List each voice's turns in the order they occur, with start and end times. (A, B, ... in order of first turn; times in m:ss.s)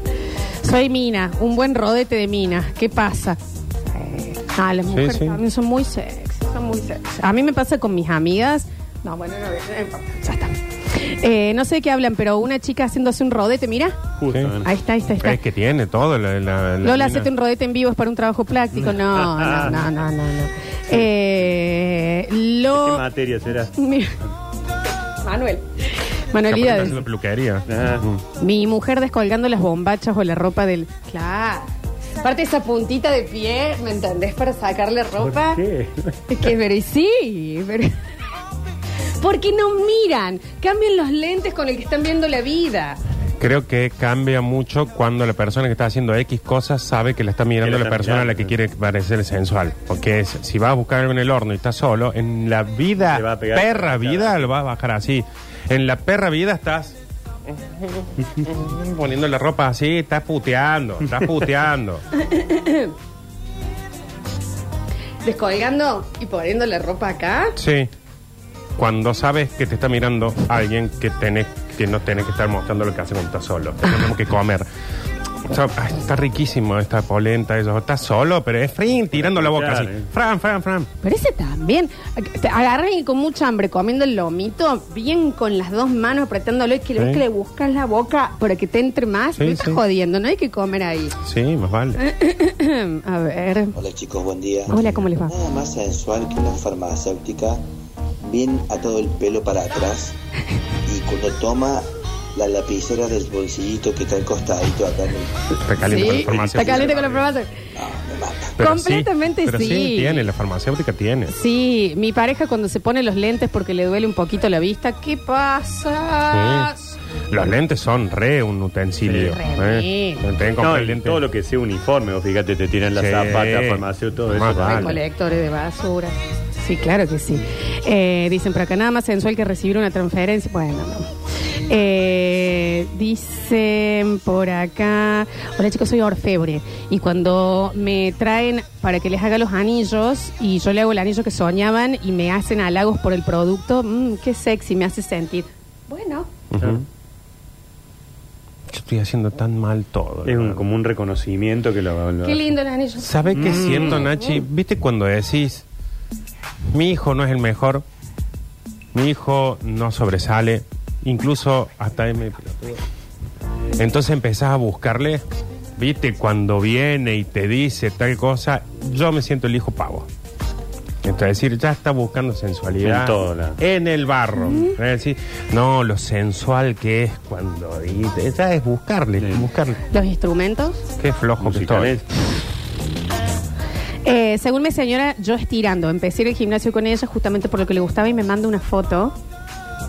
0:00.6-0:14.1 A
0:04.9-0:05.4 B
0:14.2-0:14.7 C
0:14.6-0:15.4 A
0:15.2-0:17.3 B
0:16.8-0:23.0 A
0:18.9-0:19.8 C
0:22.7-0:23.7 C
0:23.8-0:24.2 A
0:25.2-0:27.0 A
0:26.5-0:28.2 B
0:27.7-0:28.0 C
0:28.4-0:31.7 A
0:32.2-0:35.6 A
0:35.2-0:36.2 C
0:36.3-0:38.0 A
0:39.2-0:43.0 A
0:43.4-0:56.9 B
0:47.6-0:48.5 C
0:53.1-0:54.5 C
0:57.5-1:02.0 B
1:02.2-1:02.9 A
1:05.2-1:07.5 A
1:07.6-1:07.9 B
1:08.8-1:14.6 B
1:15.5-1:20.9 B
1:19.1-1:20.0 C
1:21.0-1:31.1 A
1:27.0-1:27.2 B
1:29.4-1:29.8 B
1:31.2-1:32.0 B
1:32.0-1:33.7 A
1:33.7-1:34.7 D
1:34.7-1:35.0 B
1:34.7-1:35.3 A
1:35.2-1:37.6 D
1:38.2-1:40.1 D
1:40.8-1:45.5 D
1:45.6-1:47.1 B
1:45.8-1:47.5 A
1:46.2-1:46.9 D
1:47.8-1:48.6 D
1:48.6-1:51.3 B
1:48.6-1:50.2 A
1:51.3-1:57.0 A
1:56.3-1:56.7 B
1:57.3-2:01.2 B
1:59.0-2:00.2 A
2:00.6-2:05.0 C
2:03.0-2:05.0 B
2:04.6-2:11.1 A
2:11.7-2:26.3 A
2:26.5-2:26.8 B
2:26.6-2:26.8 C
2:28.7-2:30.6 B
2:30.2-2:32.4 C
2:32.2-2:34.4 A
2:33.0-2:35.6 B
2:33.3-2:34.1 C
2:36.7-2:37.8 B
2:38.9-2:42.8 B
2:43.8-2:45.2 B
2:45.8-2:50.1 B
2:51.0-2:59.8 B
2:52.8-2:53.6 C
2:54.4-2:54.7 A
2:59.2-2:59.5 C
2:59.9-3:00.8 A
3:01.0-3:02.0 B
3:01.4-3:02.0 C
3:04.0-3:09.1 A